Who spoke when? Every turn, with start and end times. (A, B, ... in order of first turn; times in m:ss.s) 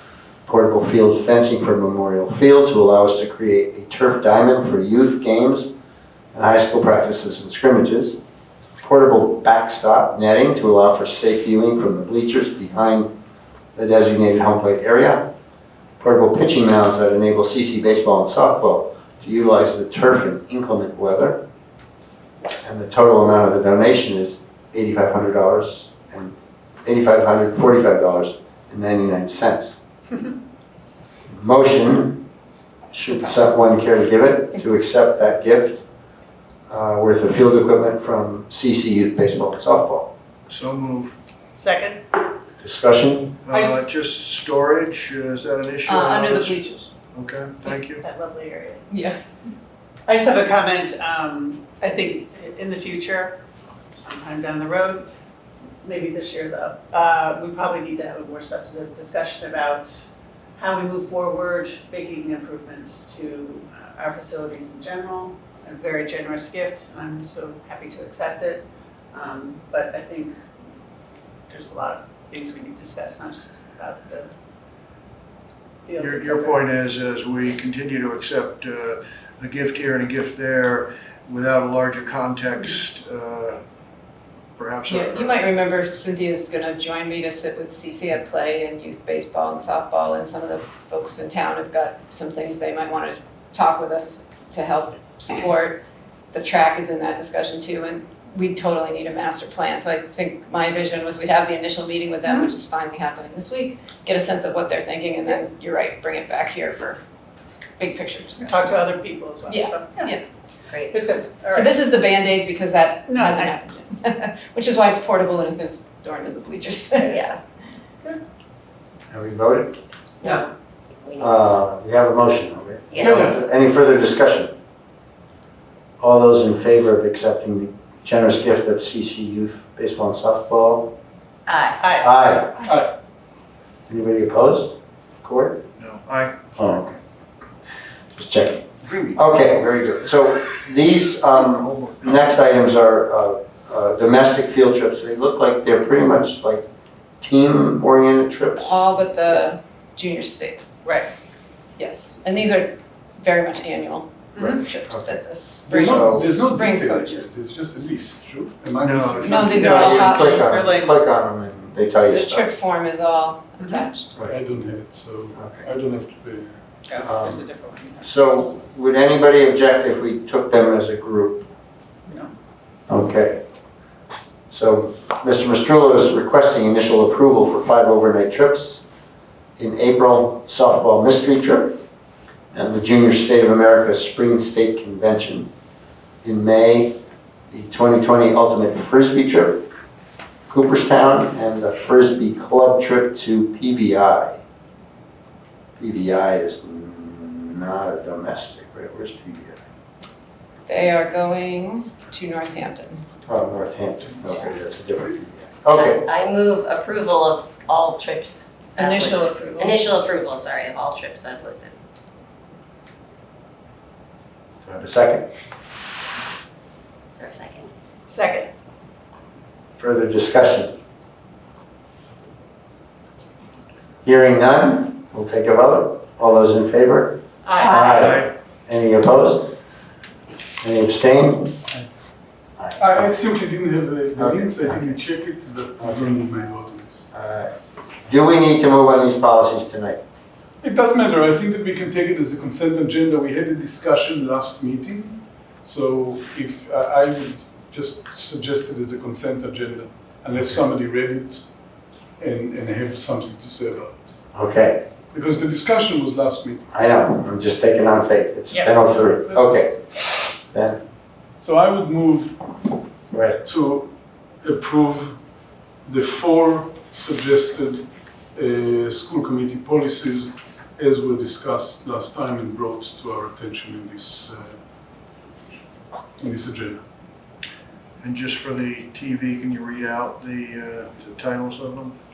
0:00.5-0:05.7 A
0:06.3-0:08.2 A
0:08.8-0:13.1 A
0:13.8-0:15.3 A
0:16.0-0:21.4 A
0:22.6-0:29.8 A
0:31.3-0:32.2 A
0:32.9-0:35.8 A
0:36.7-0:40.1 A
0:40.5-0:41.2 B
0:41.6-0:42.0 C
0:42.6-0:43.4 A
0:43.5-0:46.6 B
0:43.5-0:43.8 C
0:45.9-0:46.9 D
0:47.1-0:48.0 B
0:47.7-0:48.9 C
0:48.9-0:49.2 D
0:50.1-0:53.4 C
0:54.0-0:55.0 C
0:55.8-1:10.3 C
1:11.5-1:14.3 C
1:15.9-1:16.6 C
1:16.0-1:23.6 B
1:24.6-1:25.4 B
1:24.9-1:35.8 D
1:36.3-1:47.0 D
1:47.8-1:48.9 D
1:48.4-1:50.1 C
1:49.5-1:50.2 D
1:50.7-1:51.0 E
1:50.9-1:51.8 C
1:51.5-1:57.2 D
1:53.1-1:53.5 C
1:57.1-1:57.4 E
1:59.1-1:59.8 A
2:01.2-2:04.5 A
2:02.9-2:03.3 E
2:06.0-2:10.9 A
2:11.5-2:11.8 E
2:11.8-2:12.1 C
2:12.0-2:12.7 A
2:13.9-2:15.6 A
2:15.8-2:16.6 B
2:16.6-2:17.0 A
2:18.1-2:26.6 A
2:18.8-2:19.2 B
2:27.2-2:29.4 A
2:28.6-2:30.6 D
2:31.8-2:37.3 D
2:34.3-2:34.6 C
2:34.4-2:36.3 A
2:35.7-2:40.4 F
2:38.8-2:39.5 B
2:39.2-2:40.5 D
2:39.5-2:42.5 A
2:40.4-2:41.1 C
2:42.1-2:44.1 D
2:44.2-2:47.1 F
2:45.4-2:45.6 A
2:46.9-2:48.1 C
2:47.0-2:47.4 A
2:48.0-2:51.5 A
2:52.1-2:52.3 C
2:52.9-2:53.4 A
2:54.5-2:58.8 A
2:59.6-3:01.8 A
3:02.5-3:05.5 A
3:06.2-3:07.0 A
3:07.5-3:09.6 A
3:10.5-3:14.4 A
3:15.8-3:19.6 A
3:20.7-3:23.0 D
3:23.3-3:26.0 A
3:25.7-3:31.8 E
3:28.8-3:29.8 D
3:34.6-3:35.3 A
3:37.1-3:37.7 E
3:38.1-3:38.5 C
3:39.8-3:40.7 A
3:44.0-3:49.5 A
3:47.4-3:47.8 C
3:47.7-3:48.3 B
3:50.6-3:51.5 A
3:52.6-3:53.0 A
3:52.8-3:57.1 F
3:54.2-3:55.0 A
3:55.8-3:56.2 A
3:57.1-3:57.5 A
3:58.0-4:00.0 A
4:00.6-4:11.5 F
4:12.2-4:14.1 F
4:14.3-4:14.8 A
4:15.1-4:17.0 F
4:16.7-4:20.8 A
4:18.5-4:18.8 C
4:19.3-4:19.6 F
4:21.4-4:22.5 F
4:23.1-4:23.4 A
4:23.4-4:23.9 F
4:24.4-4:25.2 F
4:25.8-4:27.8 F
4:28.3-4:34.6 F
4:36.2-4:36.8 F
4:38.0-4:41.9 B